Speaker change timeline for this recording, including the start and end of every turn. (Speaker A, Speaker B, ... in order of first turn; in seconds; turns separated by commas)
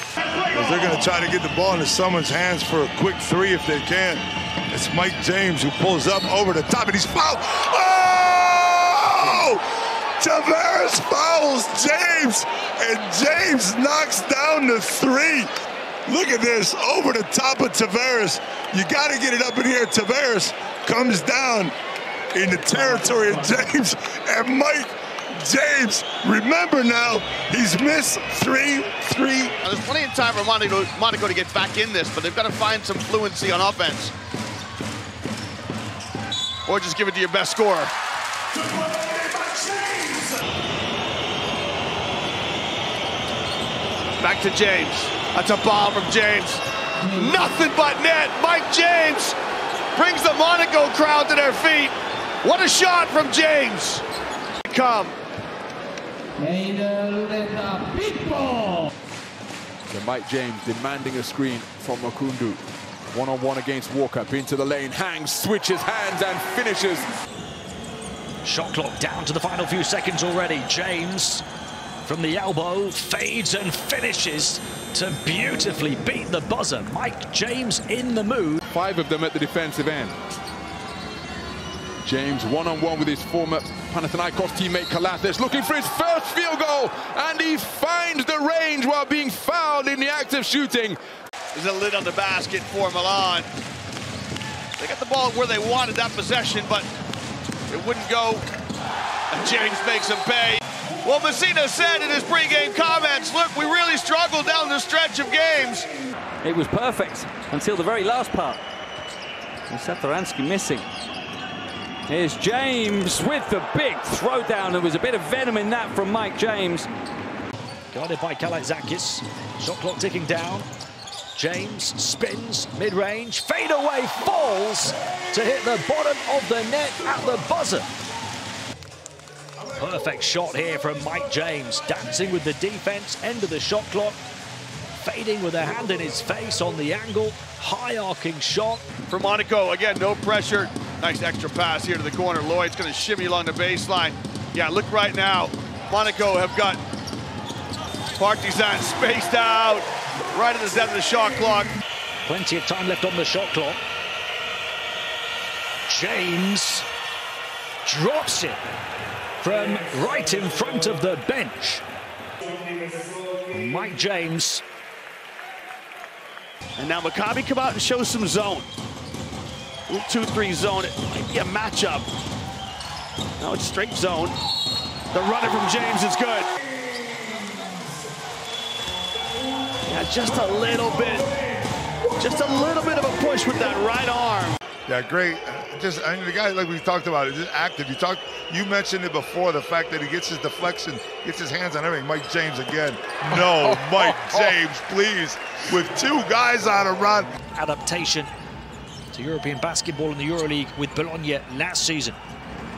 Speaker A: 0.5-9.6, Speaker A: 10.2-15.5, Speaker A: 16.1-21.8, Speaker A: 22.4-29.6, Speaker B: 29.6-34.1, Speaker B: 36.7-37.9, Speaker B: 44.2-49.4, Speaker B: 50.0-54.0, Speaker B: 54.7-55.2, Speaker C: 56.4-58.8, Speaker D: 59.9-67.1, Speaker E: 68.4-71.4, Speaker E: 72.0-78.6, Speaker D: 78.7-80.2, Speaker D: 82.0-91.0, Speaker B: 91.5-93.5, Speaker B: 94.8-96.9, Speaker B: 97.7-98.5, Speaker B: 99.3-105.9, Speaker C: 106.4-108.6, Speaker C: 109.7-110.9, Speaker C: 112.1-116.9, Speaker E: 117.9-120.7, Speaker E: 121.3-127.9, Speaker E: 129.8-134.2, Speaker E: 134.9-138.9, Speaker B: 139.1-146.8, Speaker B: 148.2-151.7, Speaker E: 152.3-153.8, Speaker E: 155.9-156.9, Speaker E: 157.8-158.6, Speaker E: 159.4-161.8, Speaker E: 163.5-164.6, Speaker B: 166.8-168.7, Speaker B: 169.9-172.1, Speaker B: 173.4-174.4, Speaker B: 175.1-176.5, Speaker B: 179.9-181.3, Speaker B: 182.2-184.6, Speaker A: 184.9-197.3, Speaker E: 197.6-198.3, Speaker E: 199.1-202.2